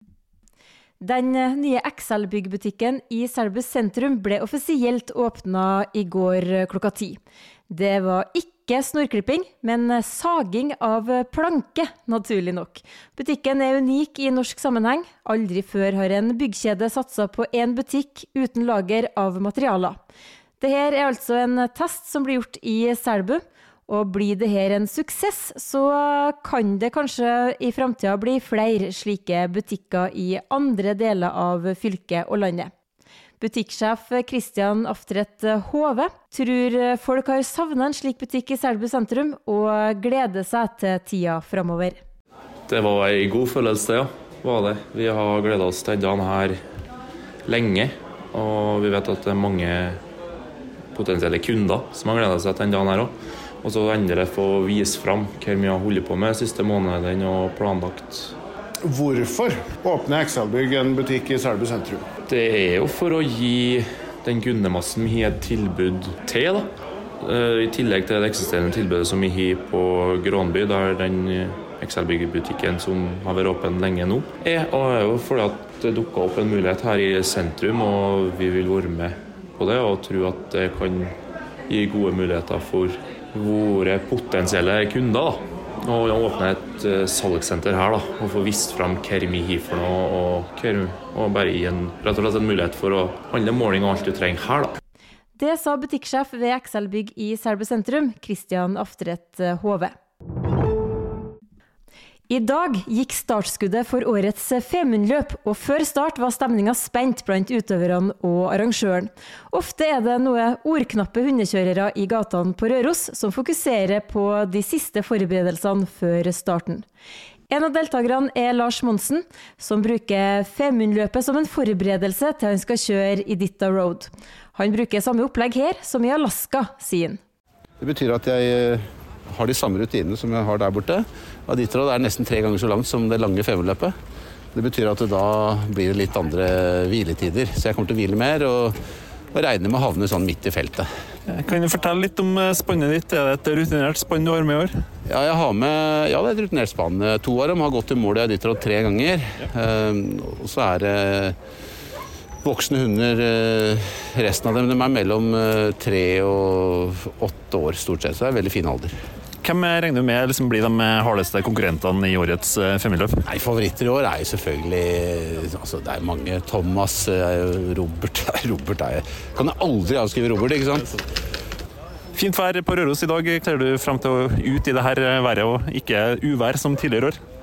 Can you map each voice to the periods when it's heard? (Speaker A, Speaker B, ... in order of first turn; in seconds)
Speaker A: 1.0-20.0, 20.6-32.7, 33.4-42.0, 95.4-99.9, 102.3-116.8, 117.5-127.2
Speaker B: 42.7-46.6, 47.5-50.0, 50.9-58.3, 62.3-66.7, 67.2-81.1, 81.7-94.8
Speaker C: 58.9-62.0
Speaker D: 127.8-133.9, 134.5-138.8, 139.3-140.9, 145.1-151.3, 152.4-158.9, 163.2-170.9
Speaker E: 141.3-144.7, 159.4-163.2, 172.1-177.2